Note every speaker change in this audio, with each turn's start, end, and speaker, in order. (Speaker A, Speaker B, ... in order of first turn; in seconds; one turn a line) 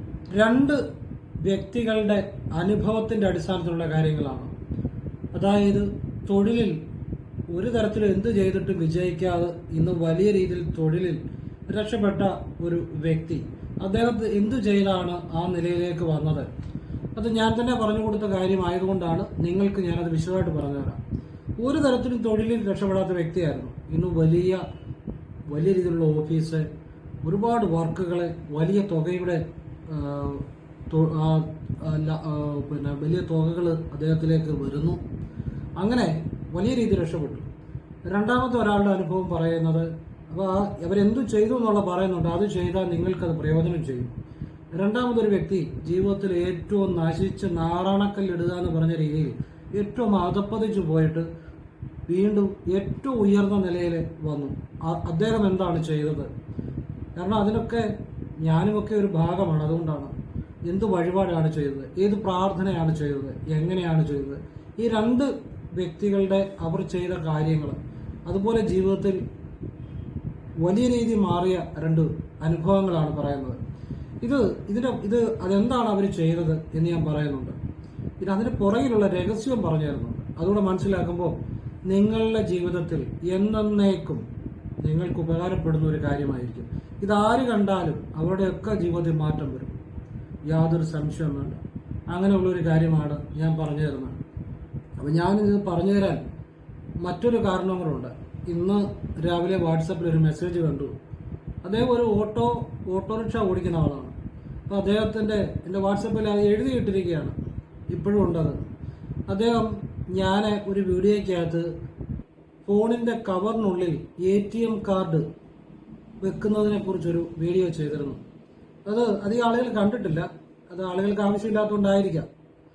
Speaker A: 0.3-0.8
Speaker A: 1.4-4.5
Speaker A: 5.3-6.8
Speaker A: 7.5-16.5
Speaker A: 17.1-21.0
Speaker A: 21.6-24.6
Speaker A: 25.5-26.7
Speaker A: 27.2-35.0
Speaker A: 35.8-37.5
Speaker A: 38.0-44.1
Speaker A: 44.7-51.3
Speaker A: 52.1-56.3
Speaker A: 57.1-57.9
Speaker A: 58.4-60.1
Speaker A: 60.7-69.2
Speaker A: 70.6-73.6
Speaker A: 74.2-77.5
Speaker A: 78.2-81.4
Speaker A: 81.9-84.2
Speaker A: 84.8-89.7
Speaker A: 90.5-94.2
Speaker A: 95.0-96.2
Speaker A: 97.0-100.9
Speaker A: 101.6-104.1
Speaker A: 104.7-107.3
Speaker A: 107.9-108.6
Speaker A: 109.3-111.7
Speaker A: 112.7-115.2
Speaker A: 116.2-118.2
Speaker A: 118.8-122.3